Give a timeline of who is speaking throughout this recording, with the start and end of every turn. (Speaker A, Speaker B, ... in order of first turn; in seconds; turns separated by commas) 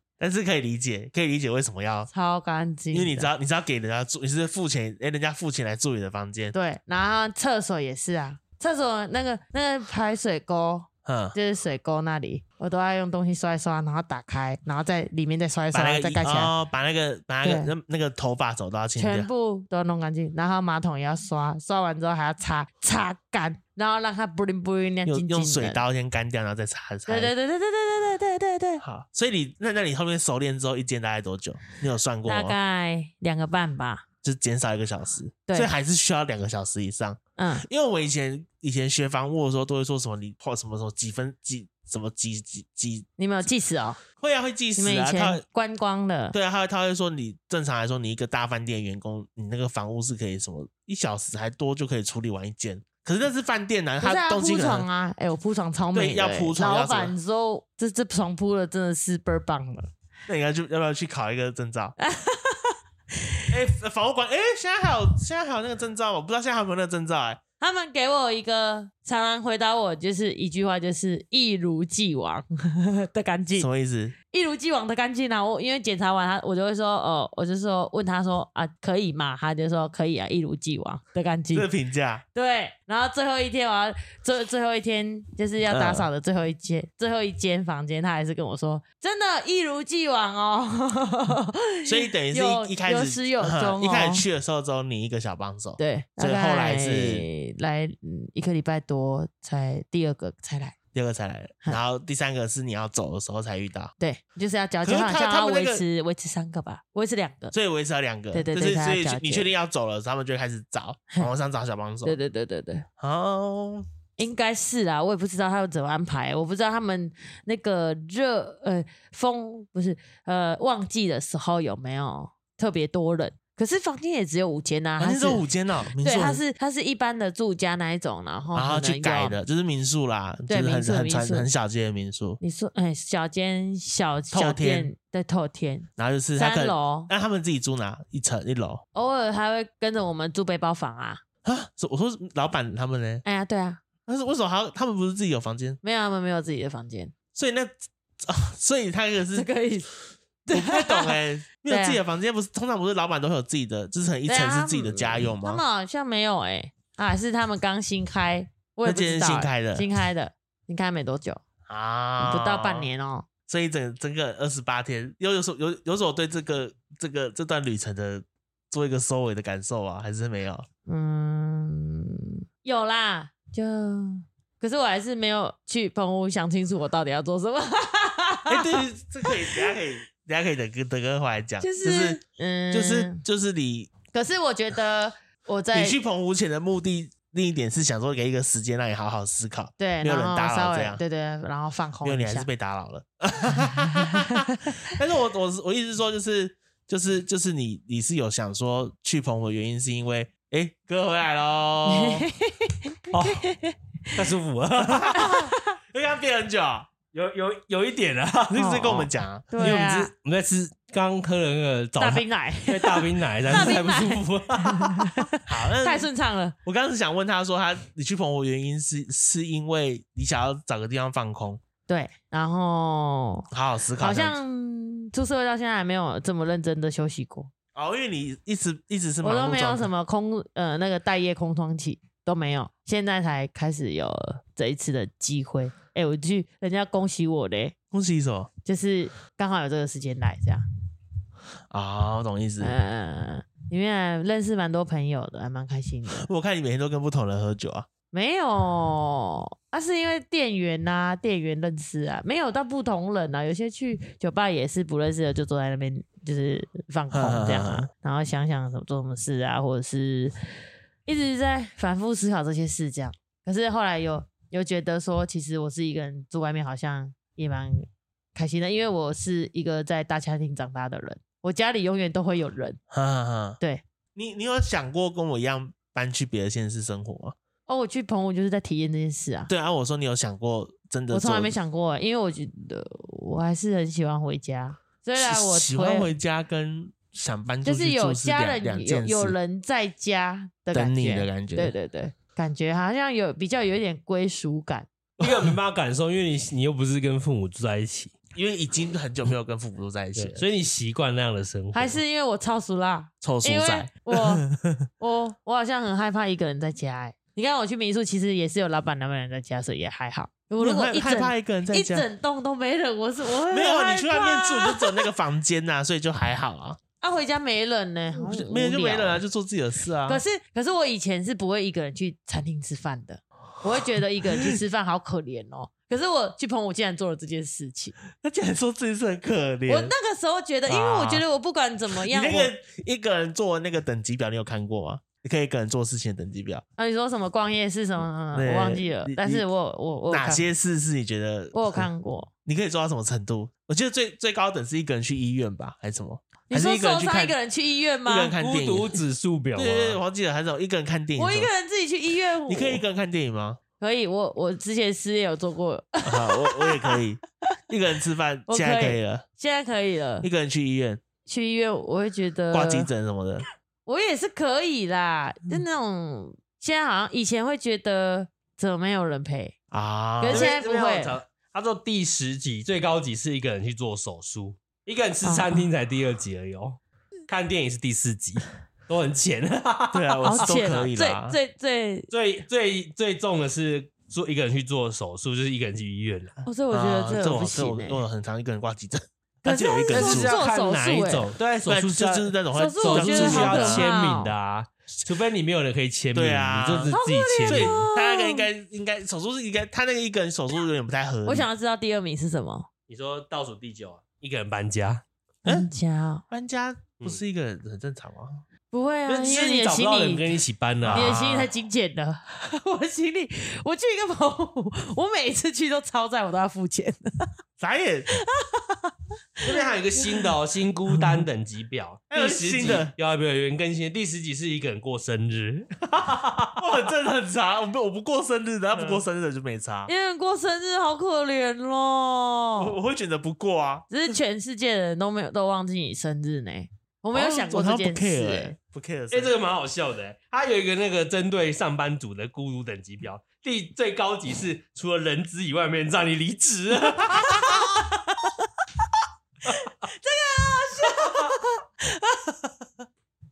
Speaker A: 0.2-2.1, Speaker B: 2.1-3.3, Speaker A: 2.9-6.5, Speaker B: 6.5-16.5, Speaker A: 11.0-11.3, Speaker A: 15.7-19.3, Speaker B: 17.4-17.7, Speaker B: 19.0-25.8, Speaker A: 25.1-27.3, Speaker B: 27.1-28.8, Speaker A: 28.8-32.5, Speaker B: 32.2-34.0, Speaker A: 34.2-43.0, Speaker B: 35.5-35.7, Speaker B: 37.4-37.6, Speaker B: 43.2-44.0, Speaker A: 44.2-45.4, Speaker B: 44.8-46.3, Speaker A: 46.3-54.9, Speaker B: 54.0-59.9, Speaker A: 55.9-57.1, Speaker A: 60.3-61.9, Speaker B: 62.0-62.8, Speaker A: 63.5-67.4, Speaker B: 67.6-73.7, Speaker A: 73.5-74.1, Speaker B: 74.3-81.7, Speaker A: 81.5-82.2, Speaker B: 82.3-94.2, Speaker A: 85.7-86.1, Speaker A: 91.8-97.3, Speaker B: 95.8-100.7, Speaker A: 100.9-103.9, Speaker B: 104.0-107.5, Speaker A: 104.8-105.8, Speaker A: 107.5-112.2, Speaker B: 108.3-109.5, Speaker B: 112.0-112.8, Speaker A: 113.0-113.8, Speaker B: 114.2-125.4, Speaker A: 125.0-126.4, Speaker B: 126.0-129.4, Speaker A: 128.5-132.4, Speaker B: 130.5-131.5, Speaker B: 132.4-137.1, Speaker A: 134.3-134.9, Speaker A: 136.0-138.8, Speaker B: 138.9-141.2, Speaker A: 141.4-143.2, Speaker B: 143.2-143.8, Speaker A: 144.1-145.8, Speaker B: 145.8-147.1, Speaker A: 147.3-149.5, Speaker B: 149.3-149.9, Speaker B: 150.5-152.0, Speaker A: 150.5-155.6, Speaker B: 154.2-161.4, Speaker A: 158.8-159.8, Speaker A: 161.7-162.9, Speaker B: 162.2-163.3, Speaker A: 163.5-170.7, Speaker B: 170.8-178.7, Speaker A: 178.5-182.2, Speaker B: 179.2-179.7, Speaker B: 181.6-183.2, Speaker A: 182.7-183.9, Speaker B: 184.1-186.0, Speaker A: 185.7-191.0, Speaker B: 189.8-192.5, Speaker A: 192.0-202.2, Speaker B: 193.9-194.7, Speaker B: 201.9-204.3, Speaker C: 203.1-203.4, Speaker C: 204.2-205.2, Speaker A: 204.8-206.9, Speaker B: 205.2-205.8, Speaker C: 207.1-208.8, Speaker A: 208.5-209.6, Speaker B: 208.6-210.1, Speaker C: 209.6-215.2, Speaker B: 212.0-216.5, Speaker A: 215.4-216.1, Speaker A: 216.6-221.6, Speaker B: 221.9-223.5, Speaker A: 223.5-224.3, Speaker B: 224.0-227.5, Speaker A: 227.7-229.9, Speaker B: 229.2-237.7, Speaker A: 237.9-238.5, Speaker B: 238.6-240.6, Speaker A: 241.7-242.7, Speaker B: 242.6-246.3, Speaker A: 246.1-247.9, Speaker B: 248.1-260.3, Speaker A: 257.1-257.9, Speaker B: 261.1-272.8, Speaker A: 272.9-273.6, Speaker A: 274.1-277.4, Speaker B: 277.7-279.5, Speaker A: 279.5-281.5, Speaker B: 281.1-286.1, Speaker A: 285.2-289.4, Speaker B: 287.6-294.9, Speaker A: 290.7-291.7, Speaker A: 295.2-295.6, Speaker C: 295.2-298.1, Speaker A: 298.3-300.4, Speaker C: 300.1-302.0, Speaker B: 301.7-304.4, Speaker A: 303.2-304.9, Speaker B: 305.0-315.1, Speaker A: 310.6-312.1, Speaker A: 313.5-316.8, Speaker B: 317.0-319.2, Speaker A: 318.1-320.2, Speaker B: 320.1-327.9, Speaker A: 328.2-329.9, Speaker B: 329.7-332.5, Speaker A: 330.7-331.2, Speaker A: 331.9-336.6, Speaker B: 336.8-340.4, Speaker A: 338.3-339.4, Speaker A: 340.1-341.9, Speaker B: 341.5-342.3, Speaker A: 342.4-347.4, Speaker B: 346.5-348.3, Speaker A: 348.0-349.0, Speaker C: 348.4-350.0, Speaker A: 349.5-351.5, Speaker B: 351.2-352.8, Speaker A: 352.5-353.6, Speaker B: 353.8-357.0, Speaker A: 356.0-359.2, Speaker B: 358.5-360.3, Speaker A: 360.2-361.0, Speaker B: 361.2-362.9, Speaker A: 362.5-363.4, Speaker B: 363.9-369.6, Speaker A: 369.7-370.5, Speaker B: 370.2-371.2, Speaker C: 370.3-380.6, Speaker B: 375.2-375.6, Speaker A: 379.9-381.4, Speaker B: 380.2-382.1, Speaker C: 382.1-386.4, Speaker B: 386.4-388.0, Speaker A: 386.7-390.4, Speaker B: 389.4-391.3, Speaker C: 389.9-397.8, Speaker A: 391.6-394.0, Speaker B: 392.5-394.3, Speaker A: 396.1-401.5, Speaker B: 396.9-398.5, Speaker B: 401.2-402.7, Speaker C: 402.9-405.0, Speaker B: 405.4-406.2, Speaker A: 406.3-408.4, Speaker B: 408.7-410.4, Speaker C: 409.1-411.1, Speaker A: 410.8-411.5, Speaker B: 410.9-417.3, Speaker A: 417.6-418.1, Speaker B: 418.2-418.9, Speaker C: 419.4-426.6, Speaker A: 422.1-422.9, Speaker A: 426.6-429.9, Speaker B: 429.9-432.8, Speaker A: 432.6-434.1, Speaker B: 433.9-438.5, Speaker A: 437.1-439.3, Speaker C: 439.1-447.5, Speaker B: 447.1-448.4, Speaker B: 449.5-452.3